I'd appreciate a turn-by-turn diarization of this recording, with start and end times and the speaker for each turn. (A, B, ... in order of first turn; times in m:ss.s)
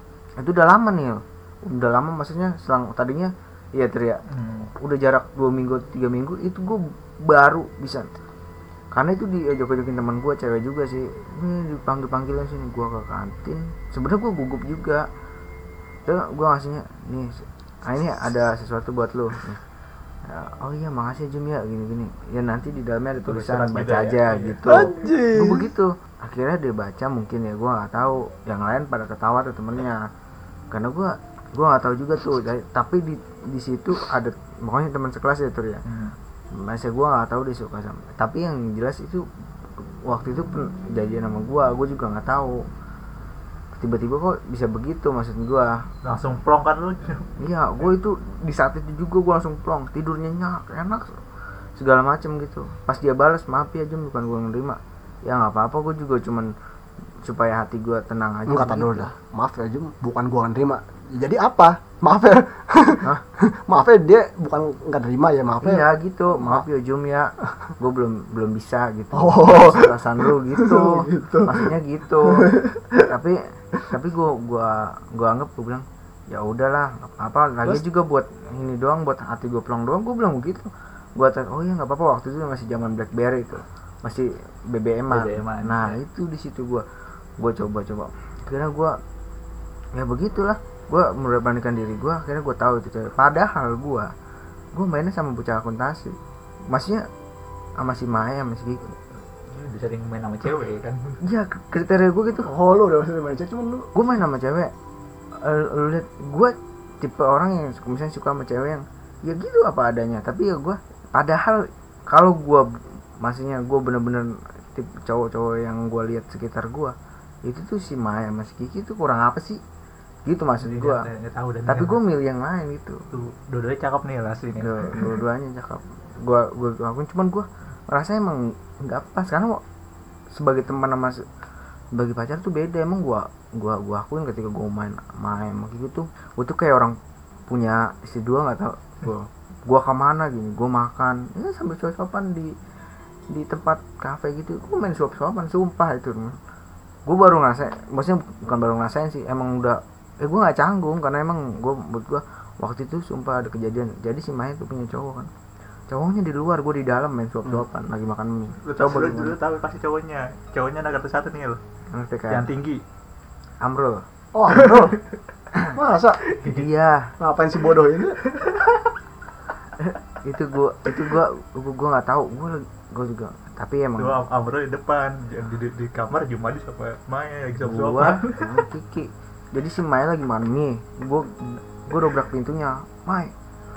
0:00.4-0:04.2 A
0:04.3-0:04.7 B
0:04.8-0:08.1 A
0:08.9-0:15.1 A
0:16.1-0:19.6 A
0:20.2-0:30.1 A
0:23.2-0:24.6 B
0:24.6-0:25.7 C
0:30.7-0:35.8 A
0:35.8-0:36.2 B
0:36.5-0:39.3 A
0:39.8-0:42.7 A
0:43.8-0:45.8 A
0:46.0-0:47.3 B
0:47.4-0:51.2 A
0:51.8-0:56.5 A
0:57.2-0:59.1 A
0:58.5-1:06.6 C
1:05.6-1:12.5 A
1:09.1-1:11.7 C
1:12.2-1:13.1 C
1:13.1-1:26.8 A
1:25.1-1:26.0 B
1:27.4-1:29.0 A
1:30.0-1:34.1 A
1:34.7-1:36.2 A
1:36.7-1:37.1 A
1:37.8-1:39.0 A
1:39.5-1:41.2 B
1:41.2-1:42.5 A
1:42.4-1:43.9 C
1:44.0-1:44.7 A
1:45.4-1:59.6 A
2:00.3-2:01.0 A
2:00.6-2:02.0 B
2:01.7-2:03.0 A
2:03.1-2:05.1 B
2:04.6-2:09.6 A
2:10.3-2:11.3 A
2:11.9-2:17.0 A
2:17.5-2:22.5 A
2:23.3-2:26.4 A
2:27.1-2:35.3 A
2:35.9-2:39.4 A
2:38.6-2:41.6 B
2:41.9-2:42.5 A
2:42.3-2:42.8 B
2:43.6-2:44.0 A
2:44.3-2:45.0 C
2:45.7-2:46.2 C
2:46.3-2:46.6 B
2:46.4-2:47.1 A
2:47.2-2:48.2 C
2:48.3-2:48.8 B
2:50.2-2:54.2 A
2:54.0-2:58.4 B
2:57.7-3:03.3 A